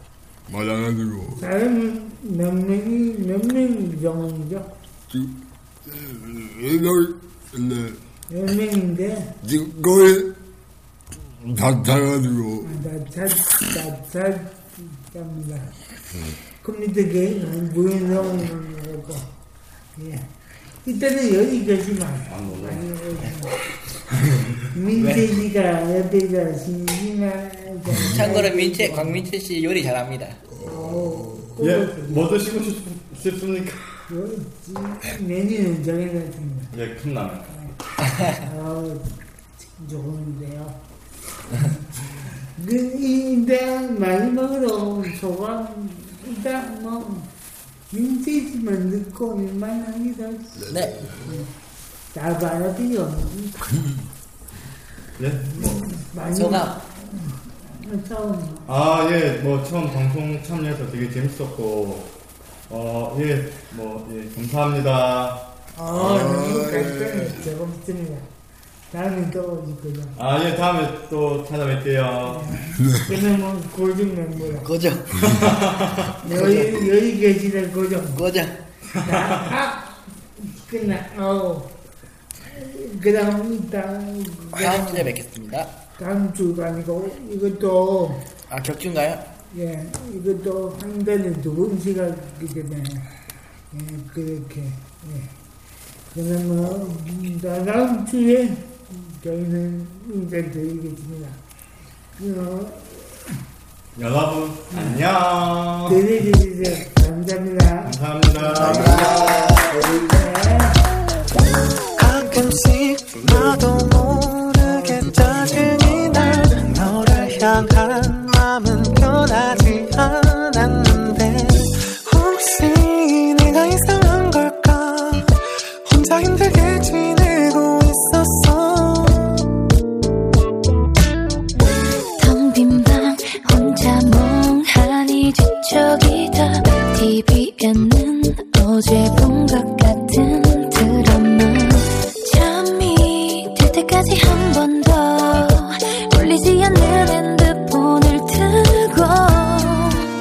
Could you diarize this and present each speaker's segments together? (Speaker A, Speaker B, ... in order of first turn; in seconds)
Speaker A: 0.5-1.4, 5.1-5.3, 5.8-8.0, 9.4-10.3, 11.2-12.7, 30.6-31.5, 50.7-51.1, 65.9-67.4
Speaker B: 1.3-4.7, 8.3-9.3, 12.6-15.7, 16.6-19.3, 19.9-20.3, 20.8-23.5, 24.7-29.2, 30.6-32.4, 34.1-36.7, 38.3-40.8, 41.5-41.8, 42.5-47.3, 47.9-50.7, 51.2-51.5, 52.1-53.8, 55.5-58.7, 65.8-68.3, 68.9-70.1, 72.2-74.7, 76.2-78.2, 79.0-81.7, 82.4-85.1, 86.0-88.2, 89.5-93.1, 93.7-95.3, 96.1-101.4, 102.2-103.4, 104.7-105.0, 105.8-109.0, 109.9-110.8
Speaker C: 22.2-22.9, 24.1-24.7, 31.6-34.1, 36.7-37.5, 55.2-55.9, 58.6-62.1, 62.7-65.4, 70.2-72.5, 75.2-76.1, 79.0-79.5, 104.0-106.0, 107.8-109.4, 115.7-116.0
Speaker D: 24.9-25.4, 28.0-30.4, 50.7-51.1, 56.3-56.8, 74.6-75.2, 76.2-76.8, 78.1-78.5, 84.5-85.7, 88.5-89.2, 108.6-109.6
Speaker E: 112.0-129.3
Speaker F: 132.2-150.1